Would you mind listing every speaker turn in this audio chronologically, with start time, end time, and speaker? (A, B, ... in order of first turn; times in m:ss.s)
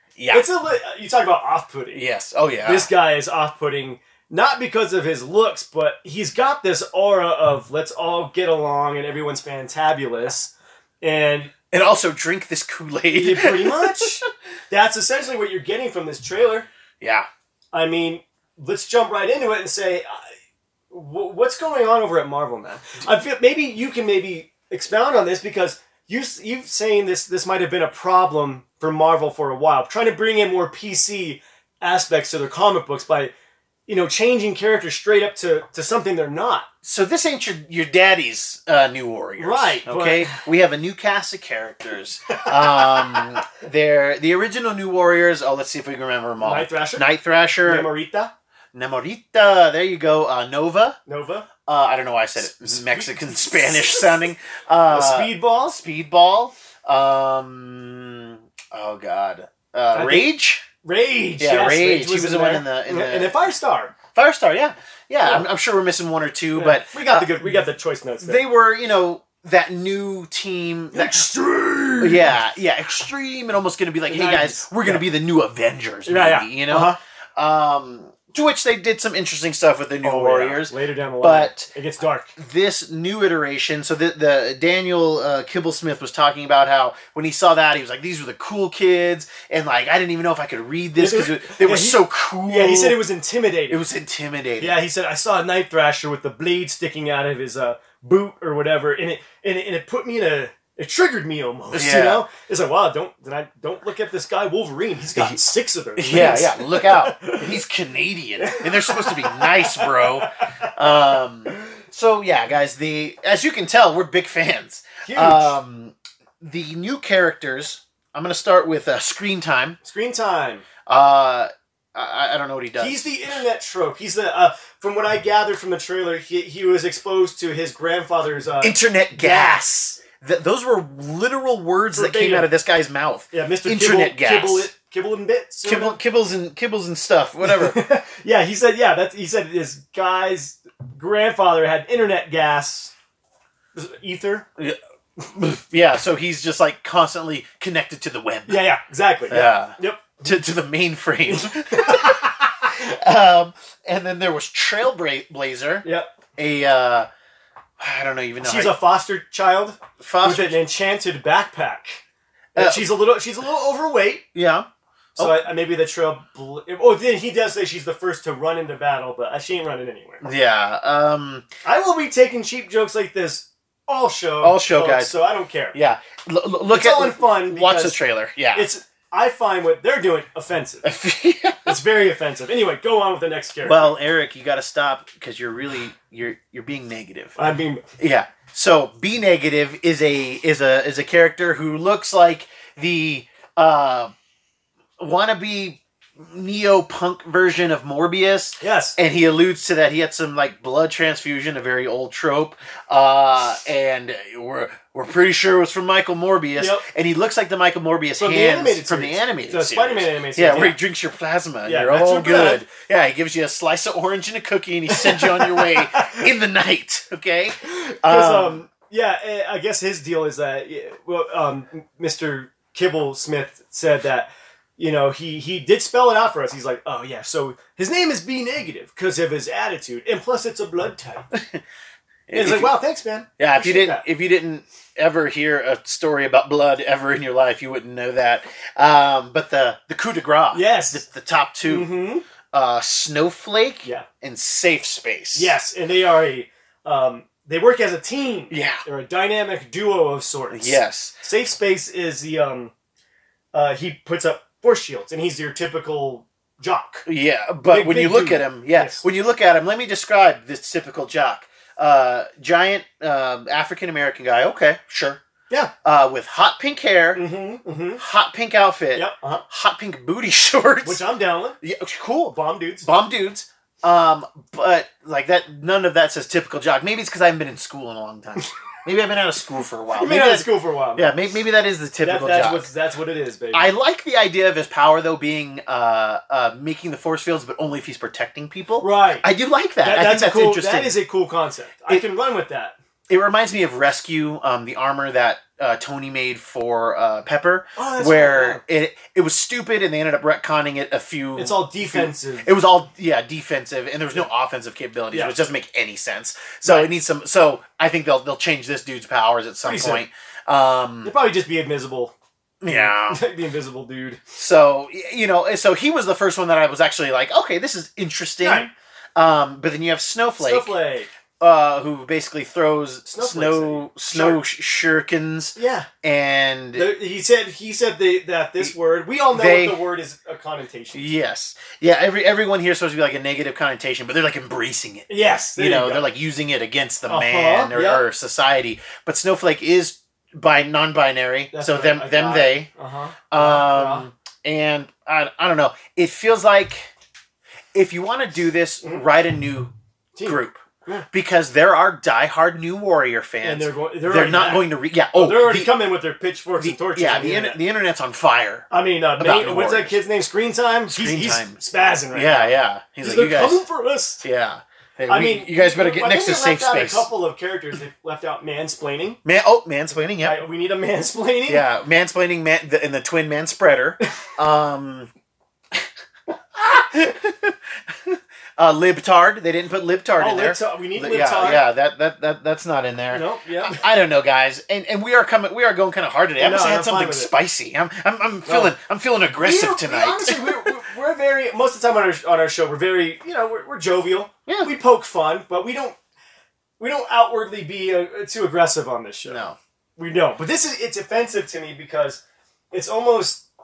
0:00.2-0:00.5 A
0:00.3-0:02.1 B
0:01.9-0:02.9 A
0:02.6-0:11.5 B
0:11.7-0:14.2 A
0:13.1-0:16.7 B
0:17.0-0:17.3 A
0:17.7-0:20.2 B
0:20.9-0:33.3 B
0:33.9-0:36.7 B
0:36.8-0:47.9 A
0:39.4-0:40.4 B
0:42.4-0:43.4 B
0:46.4-0:47.1 B
0:47.6-0:48.3 B
0:48.7-0:51.0 A
0:51.1-0:51.5 B
0:51.6-1:00.6 A
0:52.6-0:54.2 B
0:54.9-0:55.8 B
0:59.9-1:00.3 B
1:00.8-1:03.9 B
1:01.4-1:03.4 A
1:04.1-1:07.6 A
1:06.5-1:08.4 B
1:08.2-1:11.3 A
1:10.9-1:12.4 B
1:12.0-1:21.7 A
1:14.1-1:15.0 B
1:16.1-1:17.0 B
1:20.0-1:22.3 B
1:22.4-1:33.0 A
1:31.0-1:33.8 B
1:33.7-1:34.8 A
1:34.6-1:47.6 B
1:41.7-1:42.3 A
1:46.0-1:59.8 A
1:48.4-1:50.9 B
1:55.0-1:55.6 B
1:59.8-2:00.6 B
2:00.9-2:03.1 A
2:02.8-2:09.6 B
2:08.6-2:14.7 A
2:11.9-2:12.5 B
2:13.3-2:16.0 B
2:15.6-2:17.8 A
2:17.4-2:22.9 B
2:23.7-2:24.5 B
2:24.6-2:28.6 A
2:28.5-2:30.2 B
2:29.3-2:37.1 A
2:31.2-2:32.4 B
2:35.8-2:36.1 B
2:37.8-2:38.8 A
2:38.4-2:42.0 B
2:40.0-2:40.6 A
2:42.6-2:44.2 B
2:42.6-2:42.8 A
2:44.3-2:45.4 A
2:45.2-2:50.2 B
2:50.2-2:51.5 A
2:51.6-2:55.8 B
2:54.4-2:55.1 A
2:55.7-2:58.7 A
2:56.7-2:58.0 B
2:58.5-3:00.9 B
3:00.8-3:01.8 A
3:01.6-3:04.0 B
3:03.6-3:07.4 A
3:07.4-3:07.8 B
3:08.0-3:14.1 A
3:15.0-3:38.6 A
3:18.6-3:19.0 B
3:26.6-3:26.8 B
3:28.2-3:30.8 B
3:31.6-3:32.6 B
3:34.9-3:36.3 B
3:37.6-3:51.2 B
3:51.3-3:51.6 A
3:52.3-3:52.8 A
3:52.3-3:54.0 B
3:53.4-4:01.9 A
4:00.5-4:01.0 B
4:01.6-4:02.2 B
4:02.5-4:05.6 A
4:05.4-4:12.7 B
4:08.5-4:08.8 A
4:10.5-4:11.1 A
4:13.5-4:17.0 B
4:17.1-4:25.2 A
4:17.7-4:19.0 B
4:25.8-4:27.2 A
4:27.1-4:28.0 B
4:28.0-4:31.0 A
4:28.9-4:29.4 B
4:30.8-4:31.6 B
4:31.6-4:42.7 A
4:32.3-4:32.9 B
4:40.0-4:41.1 B
4:42.0-4:43.7 B
4:43.5-4:51.0 A
4:48.8-4:49.3 B
4:49.8-4:52.8 B
4:53.1-5:11.1 A
4:57.8-4:58.6 B
5:01.4-5:02.5 B
5:06.6-5:06.9 B
5:09.6-5:10.0 B
5:11.0-5:12.1 B
5:12.6-5:13.2 A
5:12.7-5:14.2 B
5:14.4-5:20.7 A
5:18.4-5:18.7 B
5:20.4-5:21.1 B
5:21.4-5:26.9 A
5:23.1-5:24.4 B
5:25.6-5:25.9 B
5:26.8-5:31.1 B
5:29.3-5:29.8 A
5:30.9-5:42.7 A
5:35.1-5:36.1 B
5:37.1-5:38.0 B
5:41.5-5:44.1 B
5:43.3-5:46.9 A
5:47.7-5:49.7 A
5:50.1-5:51.1 B
5:50.2-5:55.7 A
5:53.4-5:57.6 B
5:56.6-6:00.0 A
5:58.7-6:04.2 B
6:00.9-6:01.6 A
6:02.1-6:03.6 A
6:04.2-6:07.1 A
6:05.1-6:09.2 B
6:09.2-6:10.4 A
6:10.2-6:11.6 B
6:11.5-6:15.1 A
6:16.6-6:30.8 A
6:20.2-6:21.6 B
6:23.1-6:23.8 B
6:26.4-6:27.3 B
6:28.4-6:28.7 B
6:29.4-6:36.0 B
6:34.5-6:34.7 A
6:36.8-6:39.4 B
6:39.3-6:39.6 A
6:40.0-6:43.4 B